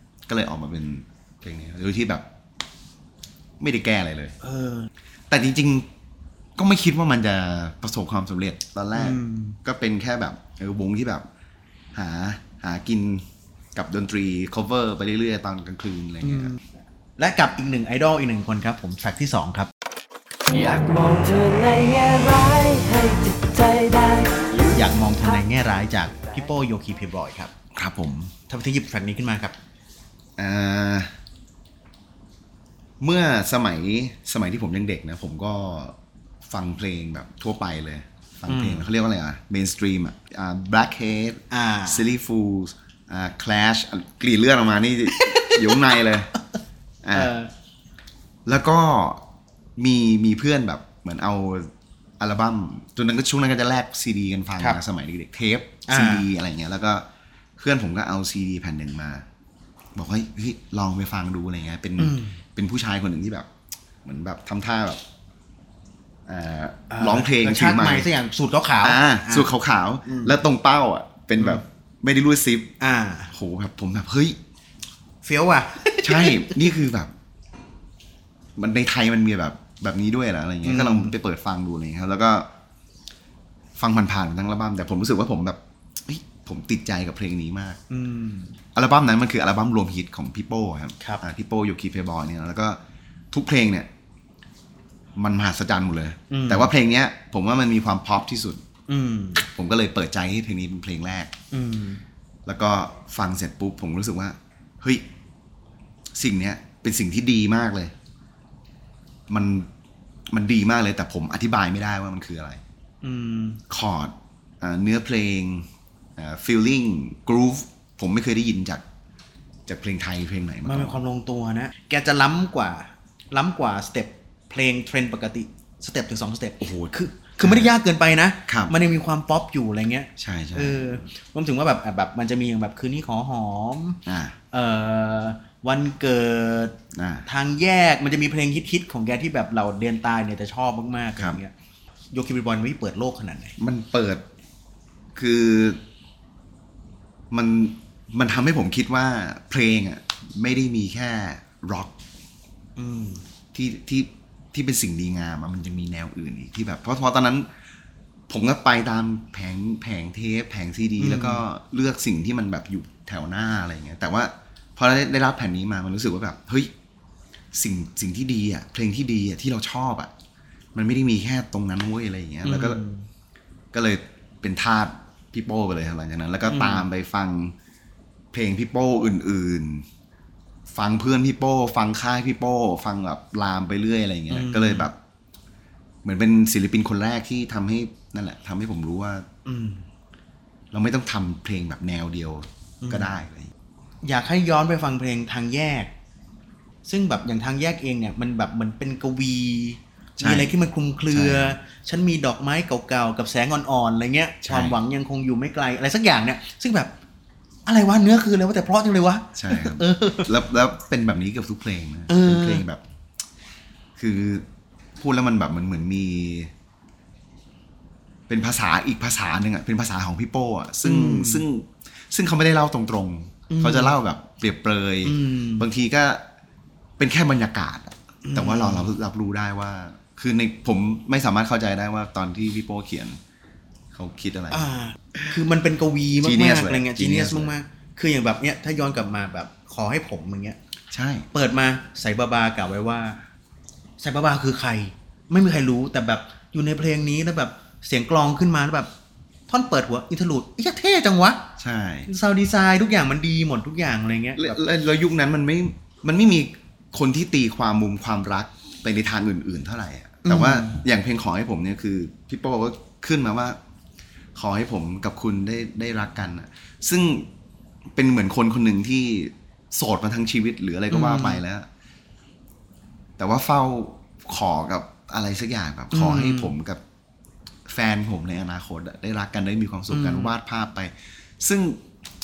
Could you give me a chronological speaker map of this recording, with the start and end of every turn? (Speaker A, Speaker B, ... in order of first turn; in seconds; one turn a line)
Speaker A: 0.3-2.2
Speaker A: 3.6-4.3
Speaker B: 4.4-4.9
Speaker A: 5.3-5.9
Speaker A: 6.6-11.3
Speaker B: 8.9-9.6
Speaker A: 11.9-16.5
Speaker B: 16.2-16.6
Speaker B: 17.2-19.7
Speaker C: 20.5-24.8
Speaker B: 24.7-27.5
Speaker A: 27.7-28.3
Speaker B: 28.5-29.6
Speaker A: 30.4-31.1
Speaker A: 33.0-36.0
Speaker A: 36.5-46.3
Speaker B: 38.5-38.9
Speaker B: 41.5-42.0
Speaker B: 45.2-46.0
Speaker A: 47.0-47.3
Speaker B: 47.1-47.5
Speaker A: 48.5-49.2
Speaker A: 49.8-57.0
Speaker B: 55.9-56.2
Speaker A: 57.6-59.2
Speaker A: 59.9-63.5
Speaker B: 62.0-62.4
Speaker A: 64.0-65.0
Speaker A: 66.3-68.1
Speaker B: 66.9-69.5
Speaker A: 68.8-72.7
Speaker B: 70.0-70.3
Speaker B: 72.8-73.3
Speaker A: 73.3-74.4
Speaker B: 75.2-76.7
Speaker A: 76.0-77.1
Speaker A: 78.6-82.5
Speaker B: 80.6-81.1
Speaker A: 83.8-87.8
Speaker B: 87.9-88.5
Speaker A: 88.7-92.8
Speaker A: 93.3-93.9
Speaker A: 95.2-98.6
Speaker B: 96.3-96.7
Speaker B: 98.9-99.4
Speaker A: 99.4-101.3
Speaker B: 101.5-102.0
Speaker A: 102.5-105.0
Speaker A: 106.1-107.9
Speaker A: 109.3-109.7
Speaker A: 110.3-112.6
Speaker B: 113.0-113.6
Speaker A: 113.7-118.8
Speaker A: 119.7-121.0
Speaker B: 120.6-141.5
Speaker A: 126.6-127.7
Speaker A: 128.5-128.7
Speaker A: 130.2-131.0
Speaker A: 134.1-134.3
Speaker A: 136.9-137.2
Speaker B: 142.1-143.6
Speaker A: 143.6-144.2
Speaker A: 145.2-145.8
Speaker A: 147.3-151.9
Speaker B: 152.8-153.2
Speaker A: 153.5-157.5
Speaker A: 158.3-166.7
Speaker B: 161.0-161.4
Speaker A: 167.5-170.1
Speaker A: 170.7-172.8
Speaker B: 172.4-173.1
Speaker A: 173.7-177.5
Speaker B: 176.5-176.8
Speaker A: 178.3-179.8
Speaker A: 180.7-185.0
Speaker B: 184.3-184.9
Speaker A: 186.0-189.3
Speaker B: 189.4-189.8
Speaker A: 190.7-193.5
Speaker B: 192.8-193.1
Speaker B: 194.0-195.9
Speaker B: 196.8-206.9
Speaker A: 200.2-200.5
Speaker A: 201.1-201.6
Speaker A: 204.4-204.8
Speaker B: 207.7-210.3
Speaker A: 209.3-212.8
Speaker B: 212.1-212.6
Speaker A: 214.0-214.4
Speaker A: 215.0-216.5
Speaker A: 218.3-226.2
Speaker B: 220.8-221.4
Speaker B: 223.5-223.9
Speaker B: 225.0-225.7
Speaker A: 227.0-233.2
Speaker B: 228.2-228.9
Speaker A: 233.9-234.7
Speaker B: 234.5-240.6
Speaker A: 236.2-237.5
Speaker A: 240.9-241.3
Speaker B: 241.3-243.2
Speaker B: 244.0-248.9
Speaker B: 249.5-251.5
Speaker A: 251.6-252.1
Speaker B: 252.1-254.6
Speaker A: 254.3-263.6
Speaker B: 260.2-260.8
Speaker A: 264.3-267.3
Speaker A: 267.9-271.7
Speaker B: 270.9-271.4
Speaker A: 273.2-276.8
Speaker B: 275.9-276.5
Speaker A: 277.7-281.8
Speaker B: 279.9-280.3